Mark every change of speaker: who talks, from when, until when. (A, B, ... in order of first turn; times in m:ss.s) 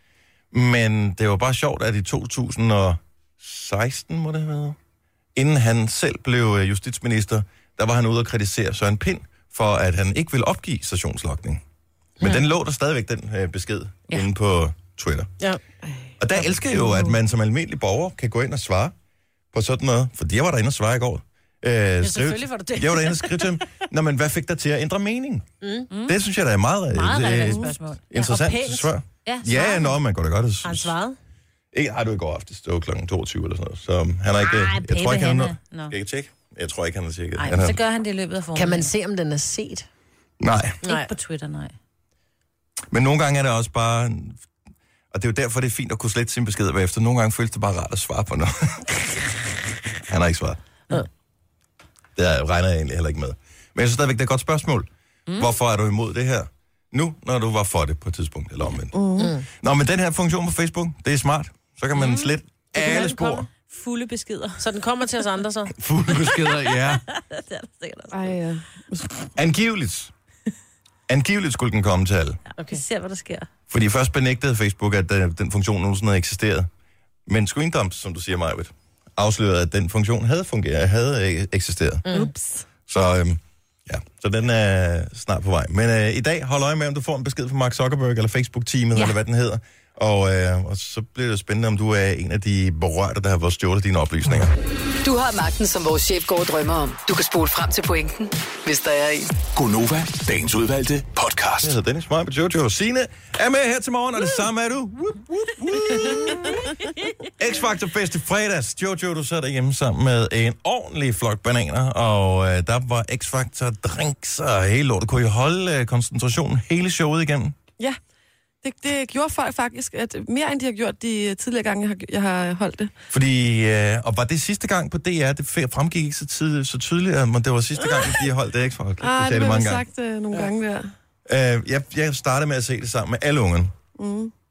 0:00.5-0:04.8 A
0:05.3-0:11.6 A
0:12.2-0:15.3 A
0:16.2-0:18.9 A
0:19.5-0:25.4 A
0:22.0-0:23.6 B
0:25.6-0:25.9 B
0:25.9-0:26.1 C
0:26.0-0:30.9 A
0:26.9-0:28.3 C
0:28.2-0:28.9 B
0:29.2-0:29.9 C
0:30.6-0:31.2 B
0:31.7-0:37.8 A
0:34.4-0:35.9 C
0:37.4-0:38.9 C
0:38.5-0:39.9 B
0:40.4-0:40.8 A
0:40.8-0:41.1 B
0:40.8-0:41.7 C
0:42.9-0:44.4 A
0:45.1-0:49.4 A
0:50.1-0:50.6 A
0:52.2-0:59.0 A
0:58.9-0:59.3 D
0:59.2-0:59.4 B
0:59.5-1:03.5 A
1:02.0-1:04.6 C
1:04.6-1:05.7 B
1:05.7-1:07.0 A
1:06.2-1:08.4 C
1:08.1-1:09.3 D
1:09.4-1:10.1 A
1:11.1-1:12.4 A
1:12.7-1:13.5 C
1:13.7-1:16.7 A
1:17.2-1:22.0 A
1:22.0-1:22.3 B
1:22.1-1:22.6 D
1:22.9-1:34.5 A
1:35.0-1:39.3 E
1:39.5-1:41.7 F
1:41.6-1:46.7 A
1:47.4-1:57.5 A
1:58.6-2:02.9 D
2:03.1-2:09.8 A
2:09.0-2:10.9 D
2:11.2-2:13.7 A
2:14.0-2:14.3 D